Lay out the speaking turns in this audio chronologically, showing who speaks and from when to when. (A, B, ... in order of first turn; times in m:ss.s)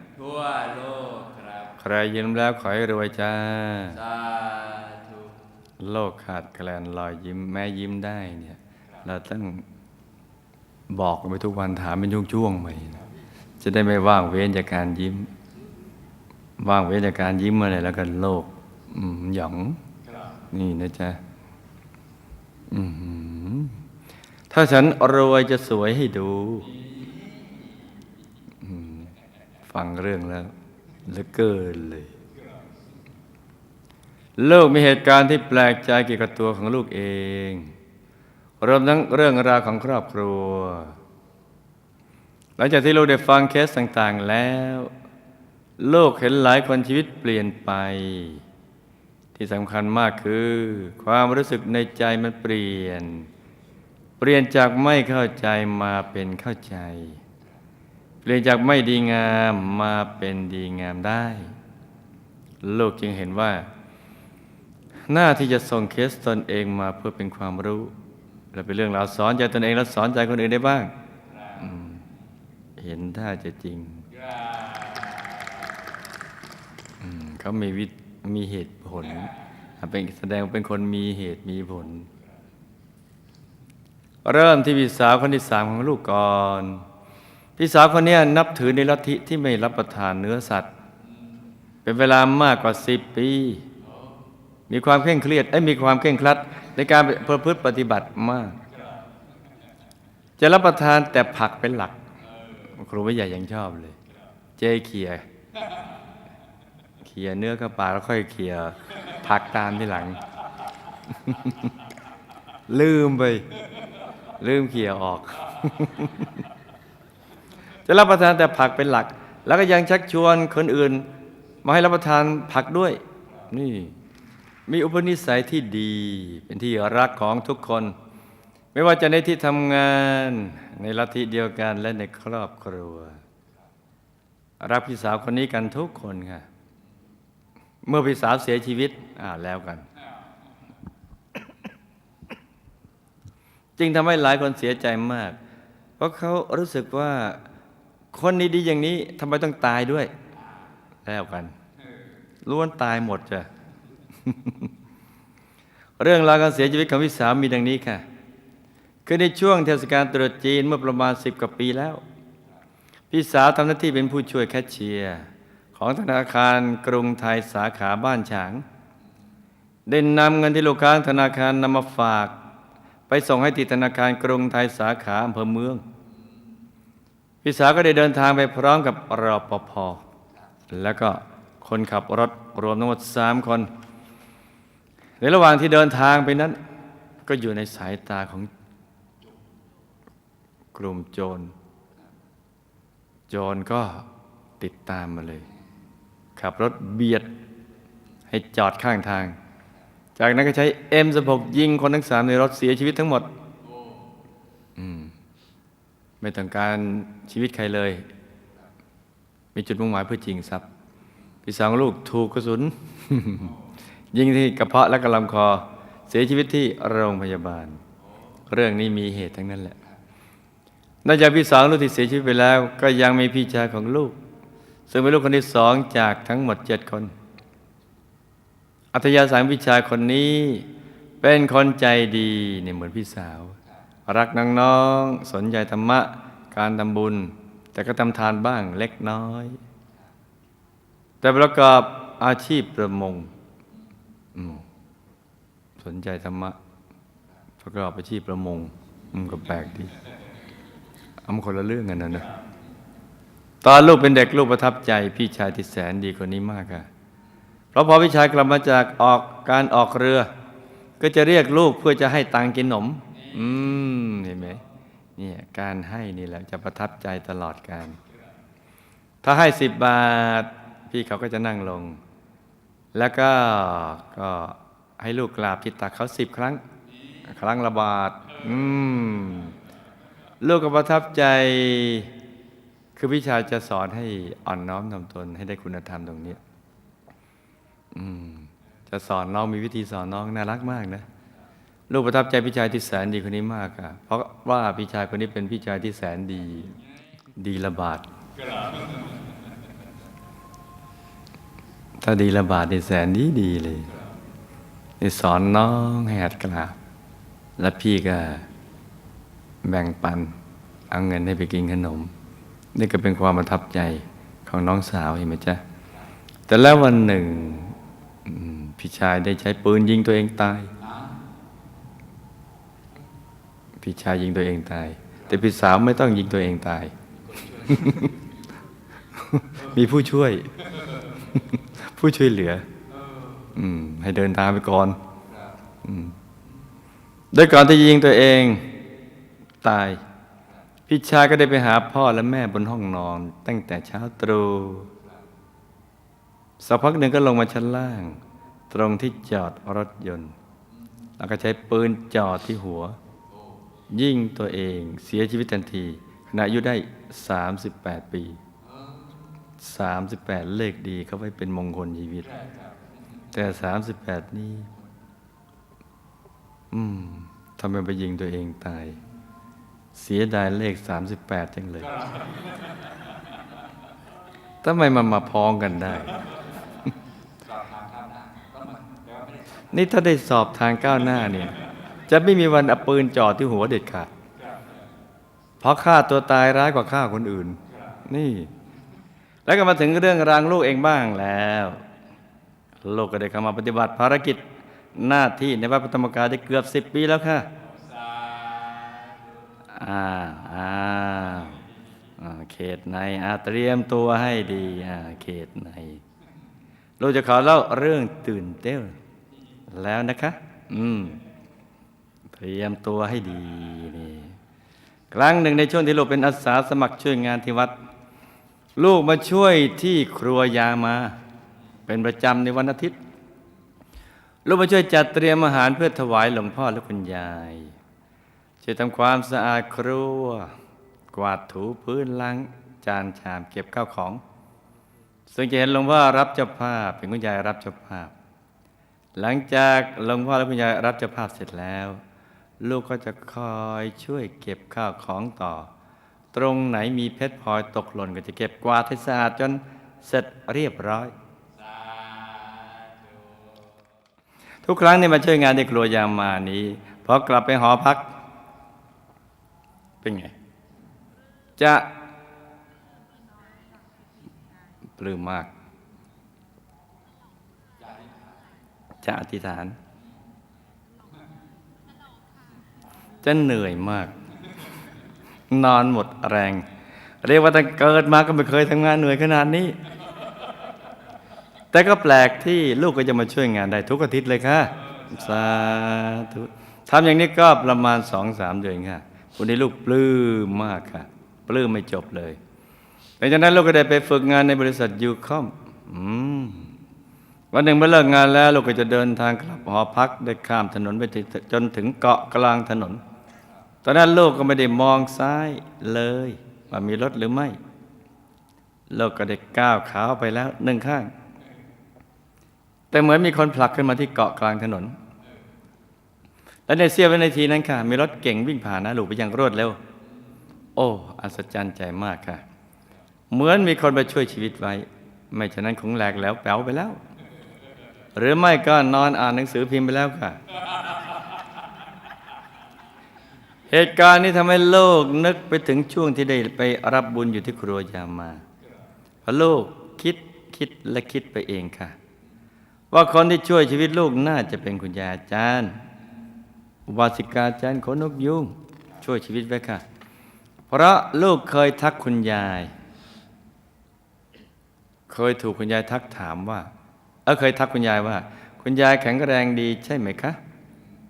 0:00.2-0:01.8 A
0:01.8-0:04.0 B
0:03.9-0:05.4 A
0:05.8-0:09.6 B
0:10.9-0:13.0 B
0:13.6-0:15.3 B
0:16.6-0:19.8 B
0:20.0-0:20.4 A
0:20.5-0:21.2 B
0:22.7-0:23.8 B
0:24.5-0:26.7 B
0:26.7-0:27.7 A
0:28.6-0:29.1 B
0:29.7-0:30.5 B
0:31.0-0:32.1 B
0:34.4-0:37.7 B
0:38.6-0:40.9 B
0:42.6-0:44.9 B
0:45.8-0:48.4 B
0:49.3-0:53.3 B
0:54.2-0:57.2 B
0:58.2-1:01.5 B
1:02.6-1:03.7 B
1:05.1-1:07.9 B
1:08.5-1:10.9 B
1:11.3-1:11.7 A
1:11.6-1:12.0 B
1:12.8-1:14.0 B
1:14.1-1:15.8 A
1:17.0-1:22.1 B
1:24.2-1:26.8 B
1:27.6-1:30.7 B
1:31.8-1:33.6 B
1:33.8-1:34.2 A
1:34.7-1:38.6 B
1:38.7-1:39.0 A
1:40.4-1:42.0 B
1:42.3-1:42.7 A
1:42.7-1:44.0 B
1:44.6-1:45.2 B
1:45.6-1:45.9 A
1:47.0-1:50.2 B
1:51.2-1:51.6 B
1:52.7-1:53.4 B
1:54.4-1:56.4 B
1:57.8-2:01.1 B
2:01.6-2:03.9 B
2:04.7-2:07.9 B
2:08.7-2:13.2 B
2:14.6-2:16.4 B
2:17.8-2:19.9 B
2:23.8-2:25.4 B
2:26.0-2:27.4 B
2:28.1-2:30.1 B
2:31.0-2:31.5 B
2:32.4-2:33.5 B
2:34.2-2:34.7 B
2:36.0-2:38.0 B
2:39.0-2:42.0 B
2:43.1-2:48.6 B
2:49.8-2:52.4 B
2:53.1-2:55.8 B
2:57.4-3:00.0 B
3:00.7-3:03.7 B
3:05.2-3:06.6 B
3:07.2-3:08.5 B
3:10.7-3:11.5 B
3:13.3-3:14.1 B
3:14.6-3:15.4 B
3:16.4-3:17.3 B
3:18.3-3:19.4 B
3:20.2-3:23.3 B
3:23.6-3:24.0 A
3:24.8-3:25.1 B
3:26.2-3:28.1 B
3:29.5-3:30.6 B
3:31.4-3:33.5 B
3:34.1-3:37.8 B
3:38.5-3:39.8 B
3:41.0-3:44.2 B
3:44.9-3:47.1 B
3:48.9-3:50.7 B
3:51.2-3:59.6 B
4:01.2-4:03.3 B
4:04.3-4:04.6 B
4:05.8-4:06.6 B
4:07.6-4:09.9 B
4:11.2-4:12.3 B
4:13.6-4:16.9 B
4:17.7-4:20.3 B
4:21.0-4:24.6 B
4:23.1-4:23.6 A
4:25.2-4:28.0 B
4:29.2-4:32.0 B
4:32.9-4:36.6 B
4:37.2-4:39.5 B
4:40.4-4:42.1 B
4:43.0-4:46.4 B
4:47.9-4:51.0 B
4:51.9-4:56.8 B
4:57.3-4:58.0 B
4:58.4-4:59.2 A
5:02.0-5:03.9 B
5:05.0-5:06.8 B
5:07.6-5:08.5 B
5:09.6-5:10.3 B
5:10.9-5:12.1 B
5:12.7-5:15.6 B
5:16.5-5:20.7 B
5:20.8-5:21.2 A
5:23.8-5:26.9 B
5:27.3-5:28.2 A
5:27.6-5:28.1 B
5:29.2-5:30.6 B
5:30.7-5:31.1 A
5:31.3-5:32.6 B
5:32.9-5:33.4 A
5:33.5-5:35.0 B
5:35.8-5:36.2 B
5:37.3-5:38.7 B
5:39.6-5:40.0 B
5:40.9-5:44.9 B
5:46.6-5:50.4 B
5:51.2-5:53.0 B
5:53.3-5:53.6 A
5:53.9-5:58.4 B
5:58.6-5:59.2 A
5:59.6-6:02.3 B
6:02.2-6:02.8 A
6:03.3-6:04.7 B
6:06.7-6:09.0 B
6:09.9-6:11.9 B
6:12.0-6:12.7 A
6:14.6-6:16.2 B
6:17.4-6:19.6 A
6:19.7-6:21.6 B
6:22.1-6:24.1 B
6:24.4-6:24.7 A
6:25.6-6:28.5 B
6:27.7-6:28.0 A
6:29.4-6:31.8 B
6:32.8-6:34.4 B
6:34.9-6:37.5 B
6:37.6-6:39.4 A
6:39.7-6:41.6 B
6:42.2-6:46.0 B
6:47.0-6:49.0 B
6:49.7-6:51.2 B
6:52.3-6:54.4 B
6:55.1-6:57.8 B
6:58.8-7:01.2 B
7:01.9-7:03.0 B
7:04.4-7:07.8 B
7:08.6-7:10.5 B
7:11.1-7:14.2 B
7:15.3-7:18.1 B
7:19.2-7:22.0 B
7:22.6-7:25.7 B
7:26.3-7:31.1 B
7:31.5-7:33.7 A
7:34.6-7:38.1 B
7:40.0-7:40.3 B
7:41.6-7:41.9 B
7:44.8-7:45.5 B
7:47.8-7:48.1 A
7:49.0-7:49.8 B
7:53.2-7:54.1 B
7:55.5-7:56.6 B
7:57.2-7:59.8 B
8:01.7-8:12.4 B
8:05.0-8:05.4 A
8:13.2-8:16.7 B
8:17.5-8:23.0 B
8:23.8-8:27.6 B
8:28.9-8:31.1 B
8:32.9-8:35.0 B
8:36.7-8:39.8 B
8:40.8-8:42.4 B
8:43.3-8:47.0 B
8:48.2-8:50.4 B
8:53.7-8:58.4 B
8:59.2-9:02.0 B
9:02.9-9:05.8 B
9:06.9-9:09.8 B
9:10.7-9:12.7 B
9:15.1-9:16.7 B
9:17.2-9:20.4 B